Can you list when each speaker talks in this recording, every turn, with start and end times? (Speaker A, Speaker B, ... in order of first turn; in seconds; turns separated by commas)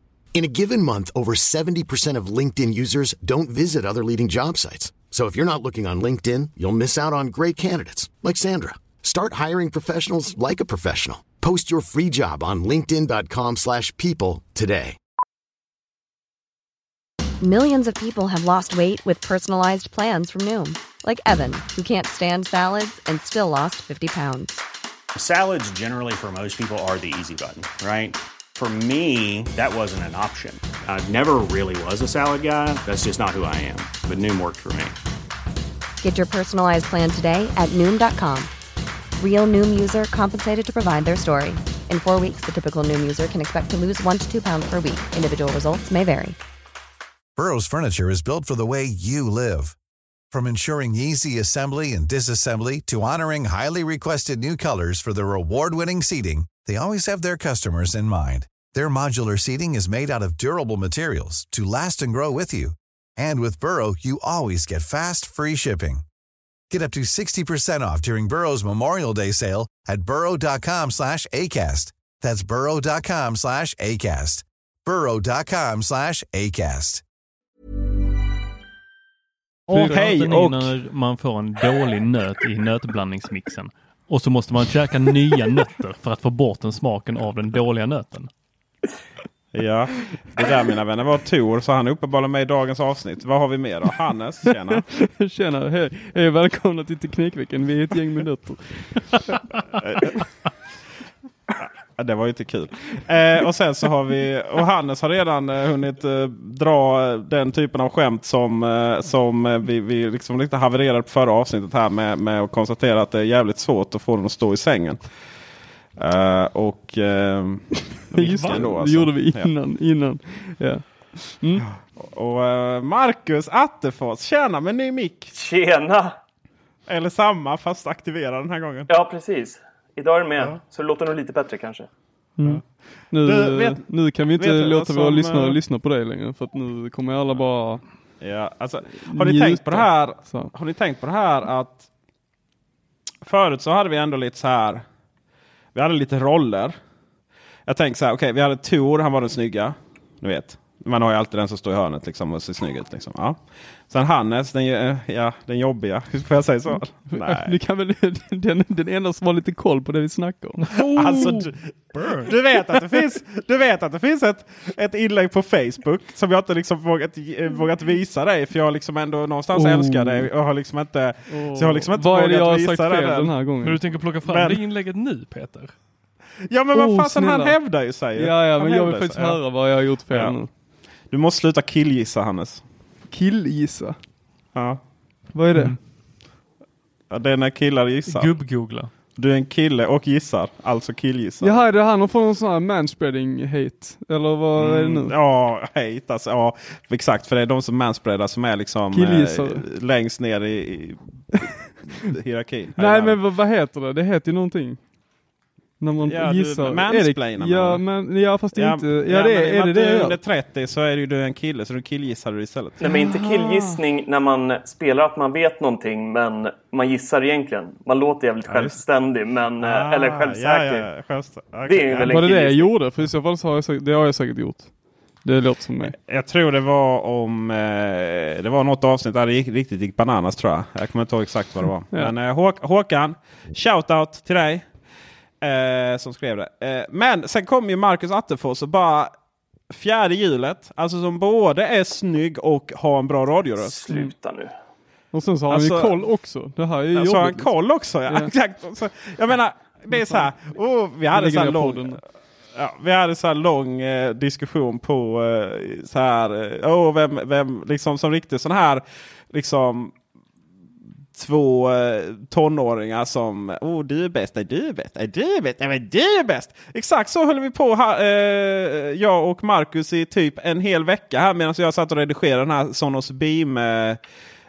Speaker A: 0.3-15.0, Speaker B: 17.4-24.6, Speaker C: 25.2-35.0, Speaker B: 36.0-38.5, Speaker B: 39.2-46.4, Speaker D: 47.4-49.8, Speaker D: 50.3-66.0, Speaker D: 66.7-77.0, Speaker E: 79.7-88.3, Speaker F: 79.7-80.0, Speaker G: 79.7-80.7, Speaker G: 89.5-94.9, Speaker F: 94.8-99.2, Speaker G: 99.8-100.2, Speaker G: 101.6-115.0, Speaker G: 116.0-119.5, Speaker F: 118.1-121.7, Speaker G: 121.7-125.3, Speaker H: 125.3-126.2, Speaker G: 126.9-128.9, Speaker H: 128.9-131.9, Speaker F: 132.4-137.8, Speaker G: 132.4-135.6, Speaker G: 138.2-141.9, Speaker F: 139.0-140.5, Speaker G: 143.2-144.9, Speaker G: 145.8-146.8, Speaker G: 147.7-157.5, Speaker F: 157.1-160.7, Speaker E: 160.7-162.3, Speaker G: 160.7-173.3, Speaker F: 169.5-170.3, Speaker F: 171.3-173.8, Speaker E: 173.6-175.7, Speaker G: 174.2-174.6, Speaker G: 176.5-179.4, Speaker F: 176.7-177.6, Speaker F: 178.1-180.5, Speaker G: 180.1-180.4, Speaker G: 181.1-182.6, Speaker F: 183.1-184.0, Speaker G: 184.6-184.8, Speaker F: 185.3-185.8, Speaker G: 187.1-188.3, Speaker E: 188.1-188.9, Speaker G: 189.2-191.6, Speaker F: 191.4-195.1, Speaker G: 194.6-203.2, Speaker F: 198.9-199.6, Speaker F: 202.8-204.8, Speaker F: 205.8-210.2, Speaker G: 206.1-207.8, Speaker G: 208.5-213.1, Speaker H: 212.8-220.9, Speaker F: 212.9-213.2, Speaker G: 218.5-218.8, Speaker G: 219.6-222.2, Speaker H: 221.7-222.7, Speaker F: 222.1-225.9, Speaker G: 226.0-234.7, Speaker G: 235.4-239.1, Speaker G: 239.7-243.8, Speaker H: 243.6-244.5, Speaker F: 245.1-247.5, Speaker G: 245.5-246.0, Speaker G: 246.9-252.0, Speaker F: 248.1-248.3, Speaker F: 249.9-250.3, Speaker F: 251.1-252.0, Speaker G: 252.5-260.0, Speaker G: 261.1-274.0